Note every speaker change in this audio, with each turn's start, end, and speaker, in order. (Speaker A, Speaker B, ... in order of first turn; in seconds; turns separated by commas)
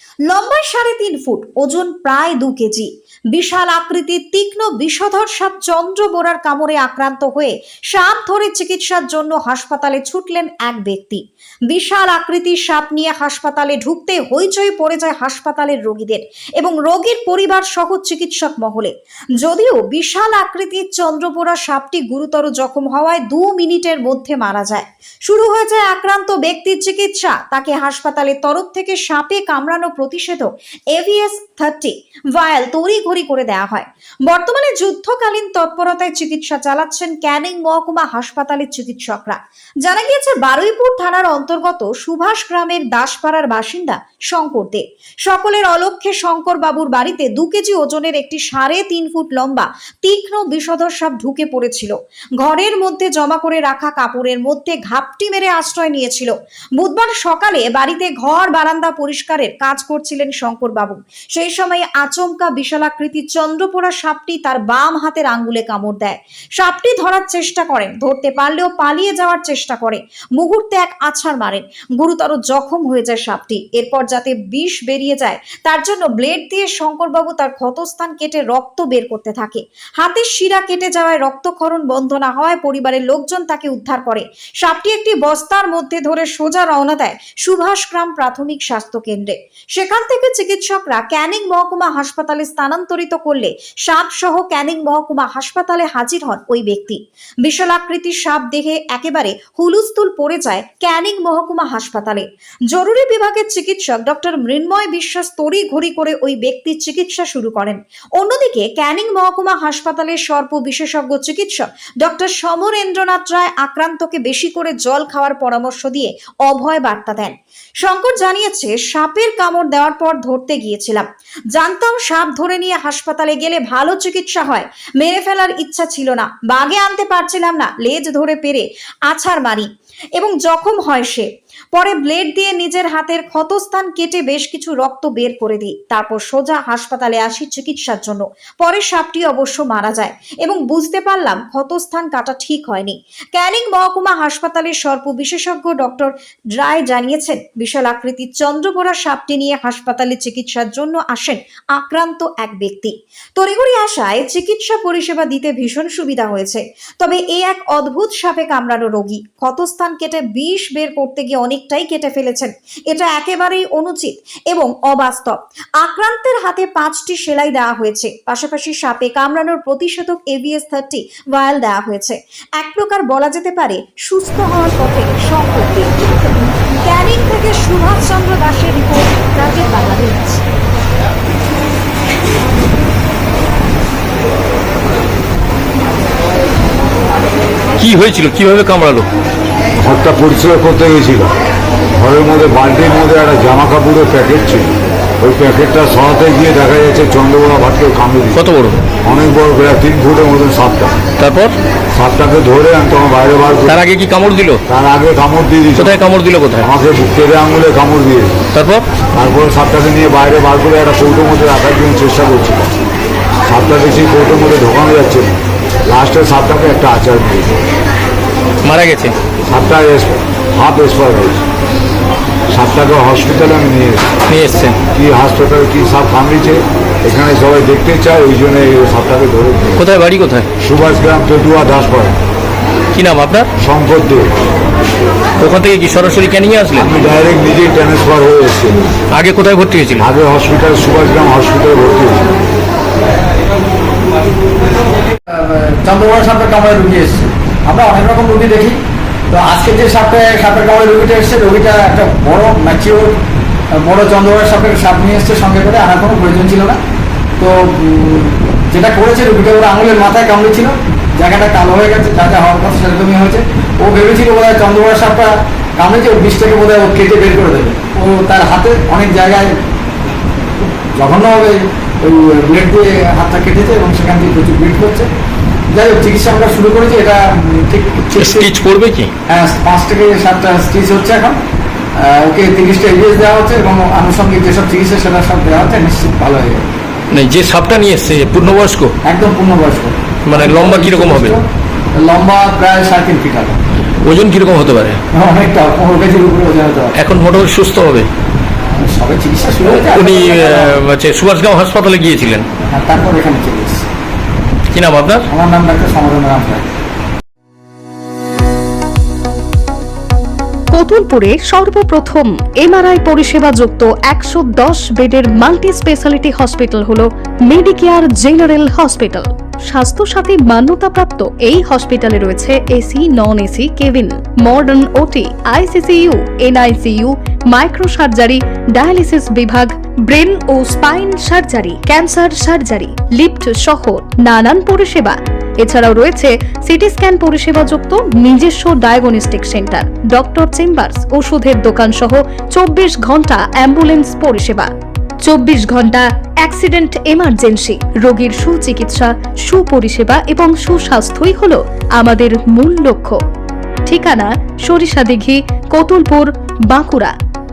Speaker A: 0.2-180.5, Speaker B: 187.8-189.1, Speaker C: 189.8-191.3, Speaker C: 191.9-198.4, Speaker B: 198.3-198.8, Speaker C: 199.0-201.0, Speaker B: 201.2-201.6, Speaker C: 201.9-203.8, Speaker B: 203.7-204.6, Speaker C: 204.7-206.0, Speaker B: 205.8-206.7, Speaker C: 206.6-208.4, Speaker B: 208.5-208.8, Speaker C: 209.1-212.8, Speaker C: 213.4-215.3, Speaker C: 215.8-217.6, Speaker B: 218.6-219.2, Speaker C: 219.4-221.4, Speaker C: 222.5-224.2, Speaker B: 224.3-224.8, Speaker C: 224.9-229.8, Speaker B: 229.8-230.5, Speaker C: 230.6-232.2, Speaker B: 232.9-233.5, Speaker C: 233.6-234.3, Speaker B: 235.4-236.9, Speaker C: 236.7-238.8, Speaker B: 239.1-240.1, Speaker C: 240.0-242.3, Speaker D: 245.3-253.2, Speaker D: 253.7-256.8, Speaker D: 257.4-269.5, Speaker D: 270.6-275.1, Speaker D: 275.7-278.5, Speaker B: 278.2-279.1, Speaker D: 279.3-281.4, Speaker D: 282.0-286.8, Speaker B: 287.1-288.9, Speaker D: 289.0-291.4, Speaker B: 290.2-291.4, Speaker D: 292.0-293.6, Speaker B: 294.0-295.0, Speaker D: 295.1-296.9, Speaker B: 296.9-298.1, Speaker D: 298.6-300.7, Speaker B: 299.6-302.5, Speaker D: 302.7-303.8, Speaker B: 304.7-305.2, Speaker D: 305.3-306.7, Speaker E: 310.7-344.7, Speaker E: 345.2-353.2, Speaker E: 353.9-357.1